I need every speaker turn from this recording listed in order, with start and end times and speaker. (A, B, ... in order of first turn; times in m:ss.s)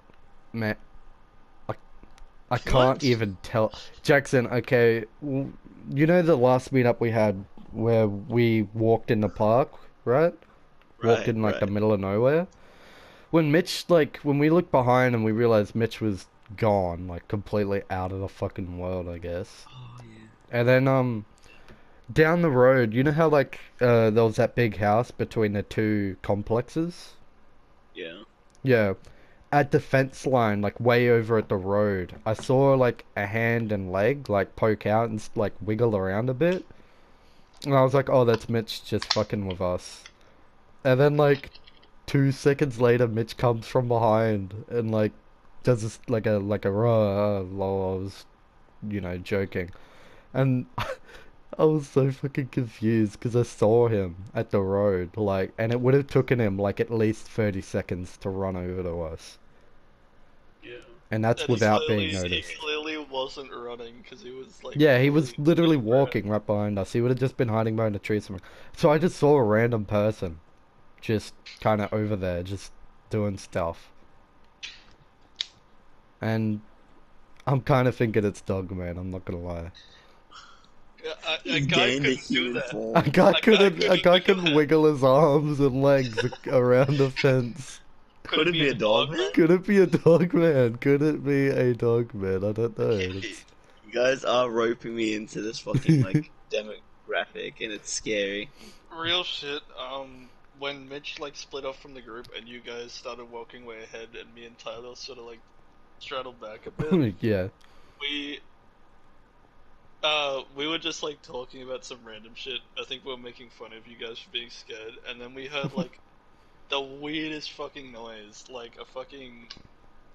0:00.5-0:00.8 A
0:02.5-0:10.4 A
0:02.6-0:03.2 B
0:11.0-0:11.7 B
0:11.0-0:12.5 A
0:13.3-0:19.7 A
0:19.7-0:20.3 B
0:20.5-0:21.3 A
0:22.1-0:27.2 A
0:27.9-0:28.2 B
0:28.6-0:29.0 A
0:29.5-0:36.7 A
0:37.6-0:40.1 A
0:40.8-0:41.5 A
0:42.1-0:48.3 A
0:48.8-0:49.7 A
0:50.3-0:51.0 A
0:51.6-0:59.4 A
1:00.6-1:00.9 B
1:01.1-1:02.6 A
1:01.4-1:06.2 C
1:02.3-1:02.6 B
1:04.8-1:10.4 A
1:11.0-1:13.9 A
1:16.2-1:16.6 A
1:17.5-1:19.7 A
1:21.0-1:22.8 C
1:21.4-1:23.2 B
1:22.9-1:27.8 A
1:23.3-1:24.7 C
1:28.3-1:29.4 C
1:28.3-1:29.4 B
1:29.3-1:33.5 A
1:33.1-1:38.5 B
1:35.9-1:36.2 A
1:38.9-1:45.4 C
1:46.0-1:47.1 C
1:46.8-1:47.5 A
1:48.0-1:48.4 C
1:50.0-1:56.0 C
1:56.7-1:59.5 C